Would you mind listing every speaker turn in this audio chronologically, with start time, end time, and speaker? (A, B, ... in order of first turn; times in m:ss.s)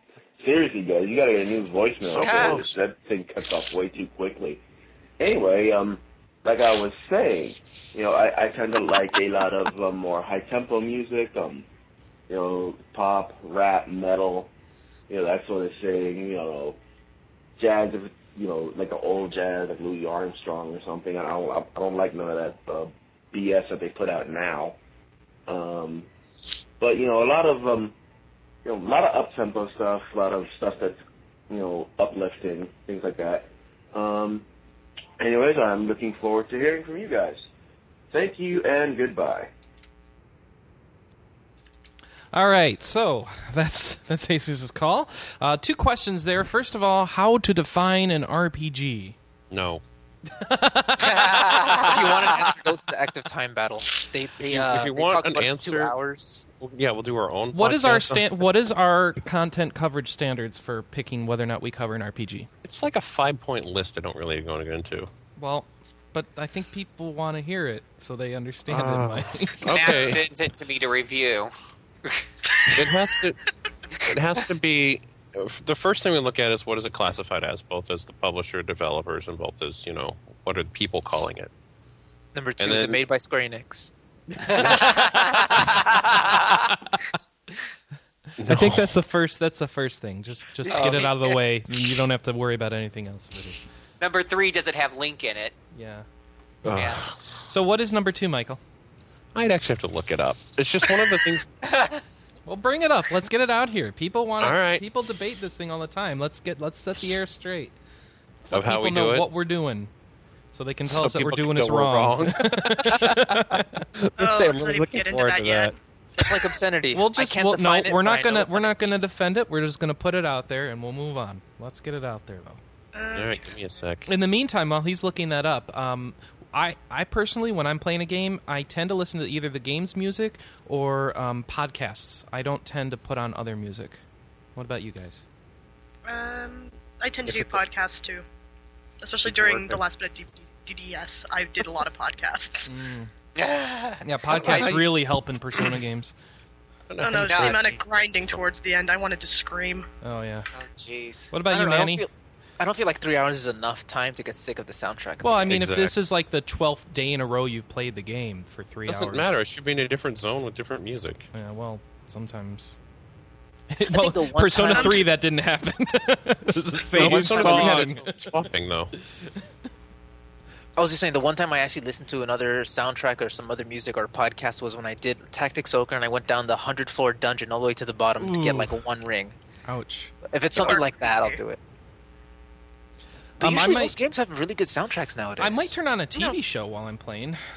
0:00.4-0:04.6 A
0:02.0-0:02.7 B
0:02.2-0:02.6 C
0:05.2-0:11.6 A
0:12.3-0:14.5 A
0:15.1-0:16.8 A
0:17.6-0:24.8 A
0:25.5-0:26.1 A
0:26.8-0:27.9 A
0:28.6-0:34.4 A
0:35.2-0:37.4 A
0:38.1-0:39.5 A
0:42.3-0:49.2 D
0:49.5-0:49.8 B
0:50.3-0:51.8 D
0:51.0-0:52.5 C
0:51.7-0:56.4 E
0:54.4-0:55.9 B
0:56.6-0:58.4 B
0:57.5-1:02.5 D
1:02.6-1:05.1 B
1:05.4-1:09.8 D
1:08.7-1:10.2 B
1:09.6-1:11.5 C
1:12.7-1:13.4 B
1:14.0-1:21.5 B
1:22.3-1:23.9 E
1:22.6-1:23.0 B
1:24.5-1:26.4 C
1:24.5-1:26.0 E
1:28.4-1:28.9 B
1:28.4-1:33.6 D
1:30.6-1:31.4 C
1:34.0-1:35.6 C
1:35.7-1:36.0 D
1:36.6-1:37.2 B
1:36.7-1:37.0 C
1:37.5-1:38.6 D
1:39.3-1:41.4 B
1:41.6-1:42.0 C
1:42.4-1:47.7 D
1:44.4-1:44.9 B
1:48.4-1:49.9 D
1:48.5-1:49.3 B
1:50.5-1:53.9 D
1:50.9-1:55.8 B
1:54.2-1:55.8 F
1:56.2-1:58.9 E
1:56.9-2:02.6 D
2:02.9-2:03.6 F
2:03.1-2:04.0 B
2:04.0-2:14.0 D
2:14.6-2:15.2 D
2:16.0-2:18.2 F
2:17.2-2:17.6 B
2:19.0-2:22.7 F
2:19.2-2:19.8 B
2:22.6-2:23.1 D
2:23.4-2:24.0 C
2:24.0-2:26.1 D
2:24.3-2:25.0 B
2:26.9-2:28.5 B
2:27.0-2:29.9 F
2:27.3-2:27.6 C
2:30.0-2:30.5 D
2:30.5-2:31.3 C
2:31.3-2:32.0 D
2:31.4-2:35.5 E
2:35.2-2:39.4 D
2:35.5-2:35.9 B
2:38.9-2:41.3 B
2:41.3-2:42.8 D
2:43.7-2:48.3 D
2:43.9-2:45.1 E
2:44.6-2:45.0 F
2:46.9-2:48.9 B
2:47.0-2:47.9 E
2:50.8-2:59.4 E
2:58.2-2:58.7 D
2:59.6-3:00.1 D
3:00.2-3:01.6 E
3:00.5-3:01.4 F
3:03.4-3:03.9 D
3:03.4-3:05.7 E
3:05.4-3:07.4 D